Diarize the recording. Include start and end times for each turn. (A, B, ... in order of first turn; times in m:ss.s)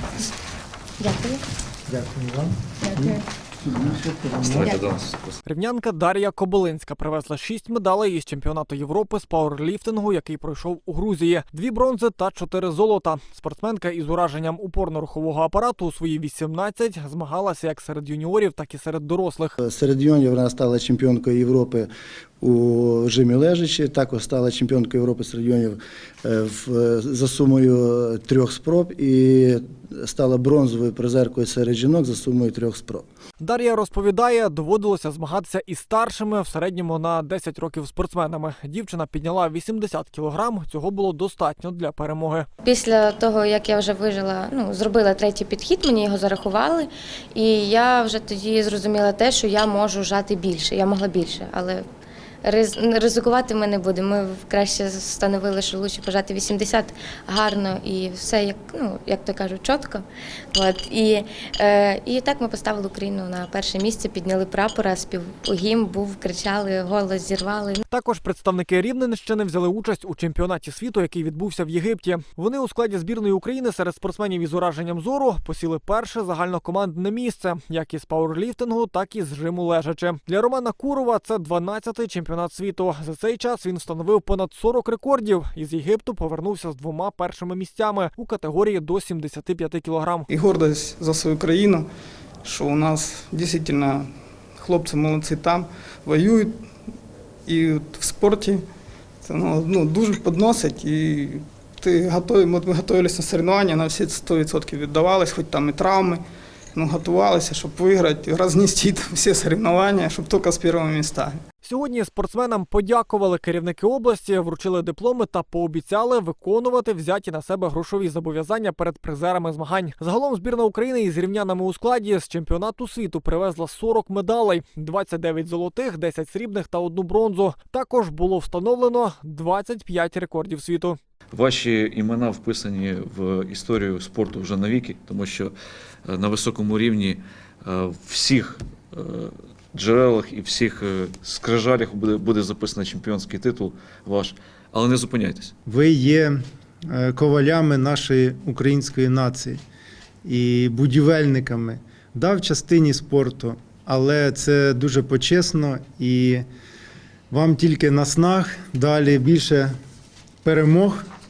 0:01.0-0:01.4 A
0:01.9-0:02.5 B
0:02.9-0:03.2 A
0:04.4-0:05.4 C
0:05.4-0:19.6 D
0:19.6-0:21.9 E
0:22.4-0:33.1 E
0:33.4-0:42.5 D
0:42.6-0:51.8 A
0:52.4-1:07.8 A
1:07.9-1:30.3 D
1:30.3-1:31.9 F
1:32.4-1:36.5 F
1:37.5-1:38.6 F
1:39.2-1:46.2 F
1:46.8-1:51.4 F
1:51.6-2:11.0 D
2:11.3-2:15.5 C
2:16.1-2:25.5 C
2:25.7-2:26.4 B
2:26.9-2:29.6 B
2:30.2-2:36.4 B
2:37.3-2:39.7 B
2:40.4-2:41.0 B